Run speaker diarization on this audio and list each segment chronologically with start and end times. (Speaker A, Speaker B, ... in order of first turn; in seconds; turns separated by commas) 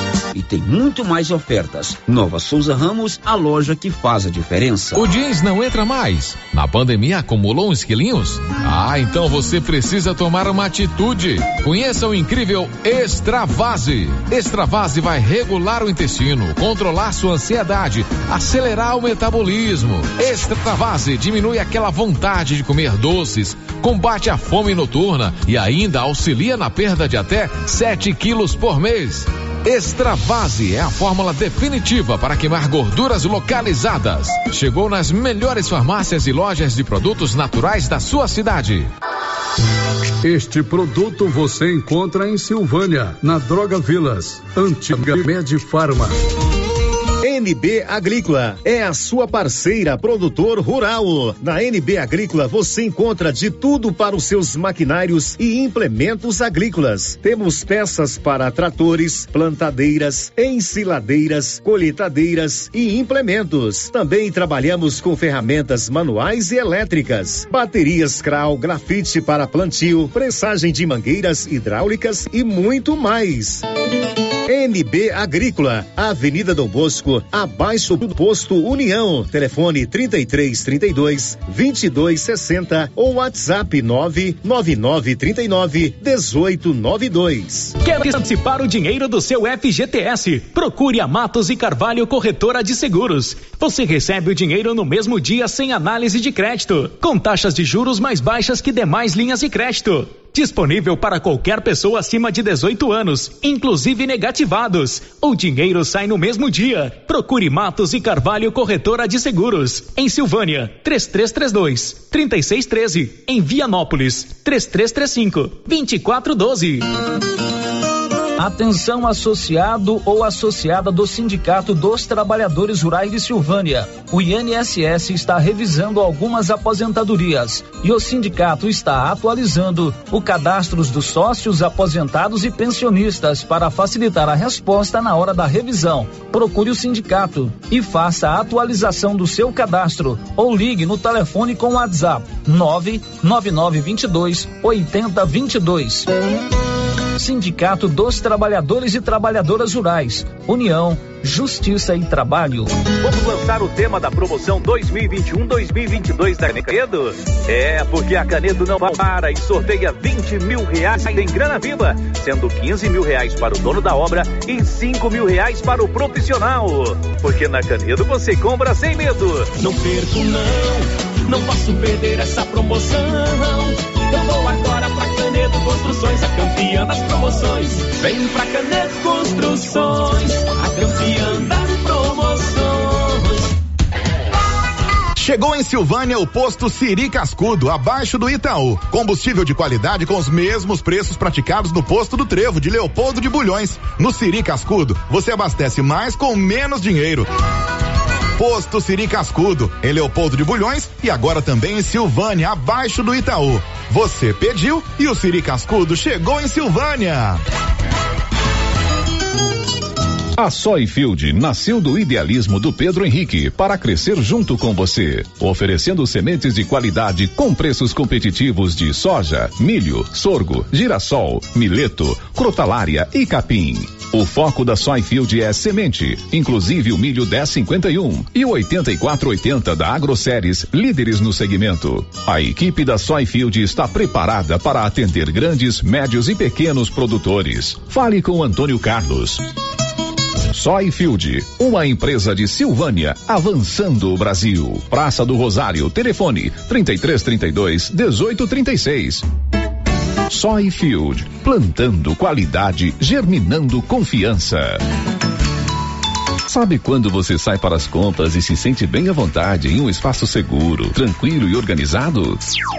Speaker A: 0.3-5.1, Speaker B: 4.9-38.9, Speaker C: 40.2-46.1, Speaker D: 47.2-73.6, Speaker D: 74.5-87.8, Speaker E: 87.8-116.9, Speaker F: 118.4-146.1, Speaker F: 147.2-152.7, Speaker G: 153.2-161.7, Speaker G: 162.3-166.8, Speaker G: 167.4-169.0, Speaker H: 170.1-170.8, Speaker E: 171.3-172.2, Speaker H: 172.4-173.6, Speaker H: 174.1-183.3, Speaker I: 185.2-197.3, Speaker I: 198.4-207.4, Speaker J: 210.4-239.4, Speaker J: 240.5-249.2, Speaker J: 250.3-254.8, Speaker J: 256.5-262.4